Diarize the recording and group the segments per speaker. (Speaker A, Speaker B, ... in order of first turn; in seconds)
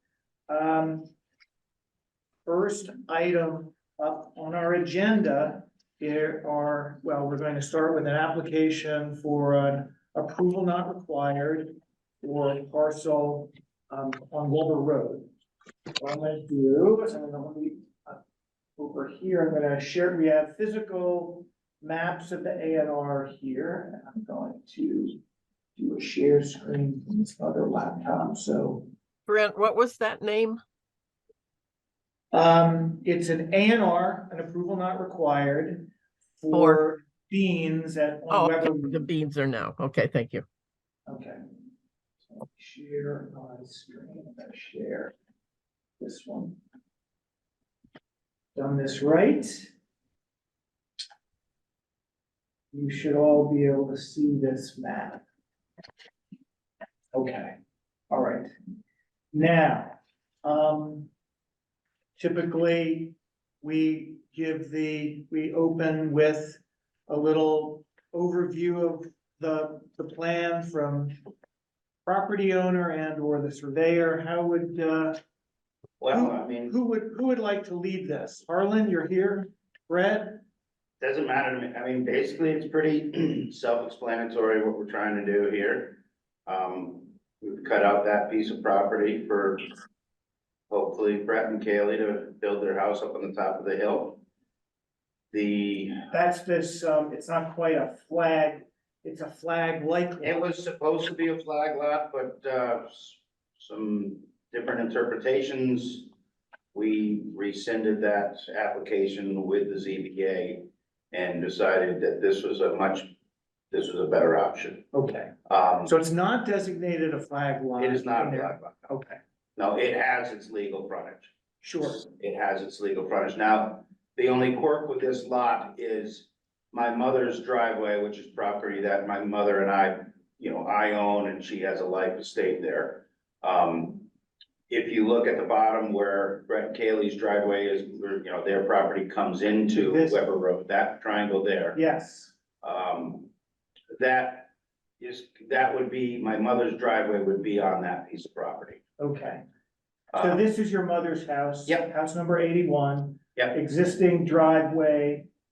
Speaker A: 0.5-1.1, 2.5-15.3, 16.0-18.2, 18.8-25.2, 25.8-28.9, 32.3-39.1, 41.1-41.4, 42.3-45.1, 46.0-46.6, 48.5-49.7, 52.7-55.2, 57.1-57.6, 58.1-58.5, 59.3-61.1, 62.2-71.2, 72.0-75.2, 76.1-80.4, 96.1-100.5, 114.9-115.3, 115.8-119.2, 121.6-122.0, 139.7-140.2, 141.8-142.3, 149.0-149.4, 150.2-155.3
Speaker B: 29.3-30.6, 36.5-36.8, 38.3-40.5
Speaker C: 76.0-76.8, 81.0-89.7, 90.7-94.2, 95.3-96.0, 100.2-106.1, 106.7-113.1, 113.7-114.9, 115.5-115.9, 117.8-118.9, 119.6-121.3, 121.8-134.1, 134.7-141.8, 142.6-143.3, 143.9-148.8, 150.1-150.4